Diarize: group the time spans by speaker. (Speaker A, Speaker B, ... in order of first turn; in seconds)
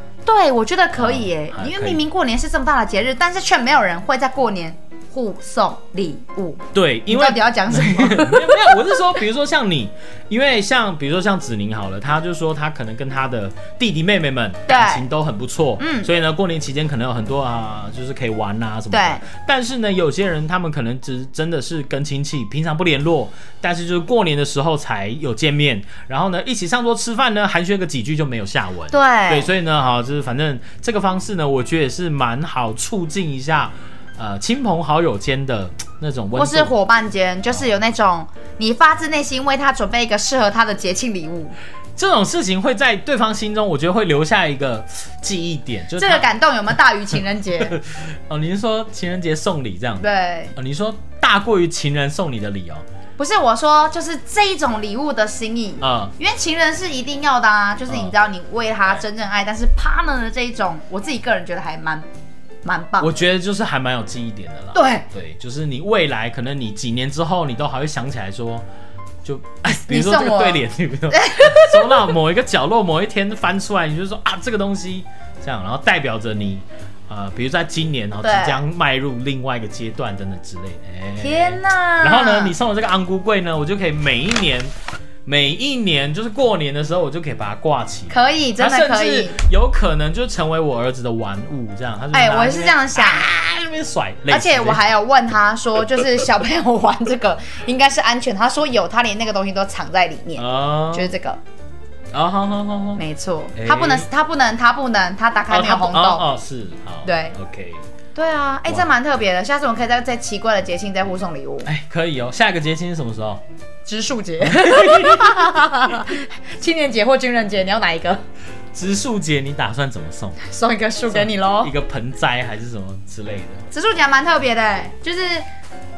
Speaker A: 0.3-8.7, 14.7-15.1, 15.8-16.1, 18.9-19.2, 28.9-29.5, 36.4-41.5, 46.0-47.8, 50.0-50.5, 53.2-62.1, 62.6-63.1, 64.7-65.1, 69.7-72.0, 78.2-78.6, 81.2-82.6, 88.1-89.4, 92.1-93.3, 94.3-101.4, 103.0-106.3, 107.0-107.4, 108.2-111.7, 113.9-118.2, 120.4-121.7, 123.7-125.5
Speaker B: 0.9-2.0, 6.7-36.7, 42.0-46.3, 47.6-52.9, 55.8-56.1, 57.9-58.1, 63.0-68.7, 69.2-84.7, 85.3-94.9, 100.4-101.1, 102.1-103.0, 103.6-104.1, 105.5-107.8, 111.7-113.4, 114.5-115.5, 118.7-120.4, 121.1-123.7